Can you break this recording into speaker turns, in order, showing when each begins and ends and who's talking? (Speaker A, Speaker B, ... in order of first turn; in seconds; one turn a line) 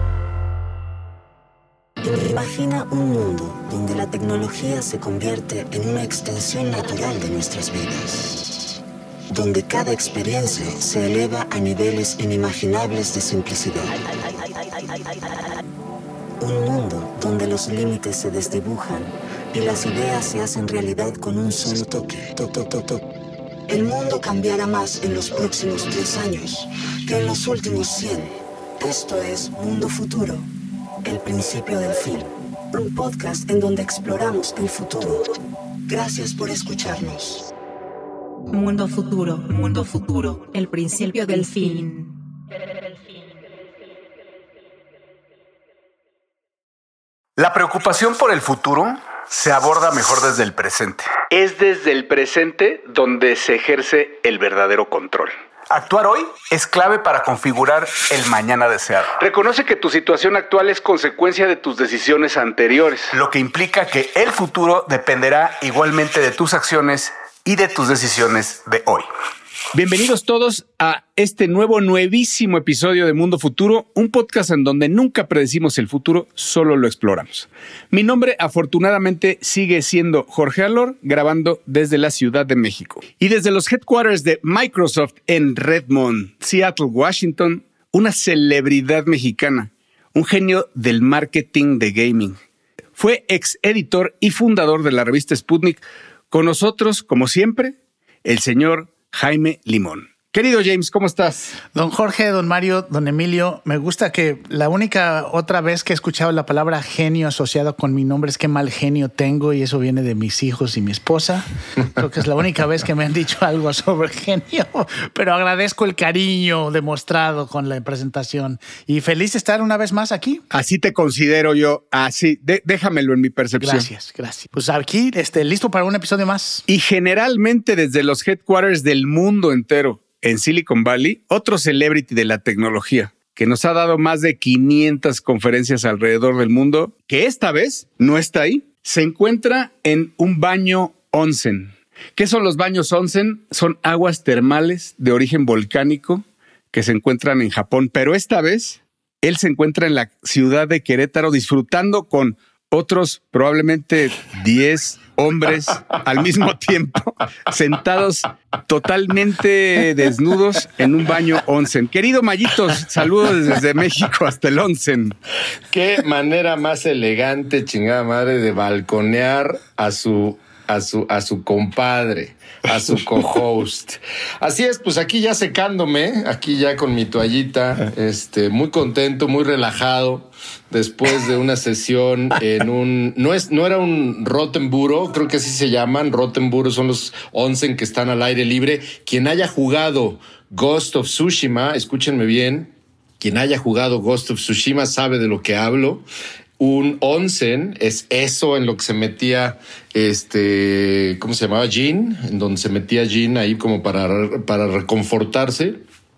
Speaker A: 2.0-8.6
Speaker A: 9.3-14.1
Speaker A: 16.4-23.0
Speaker A: 23.7-30.5
Speaker A: 31.0-37.5
Speaker B: 38.5-42.2
Speaker C: 47.4-69.1
Speaker C: 69.7-92.4
Speaker C: 93.0-101.5
Speaker D: 101.7-120.4
Speaker C: 120.5-123.9
Speaker D: 123.6-126.7
Speaker C: 126.7-165.2
Speaker E: 165.7-196.1
Speaker E: 196.6-205.8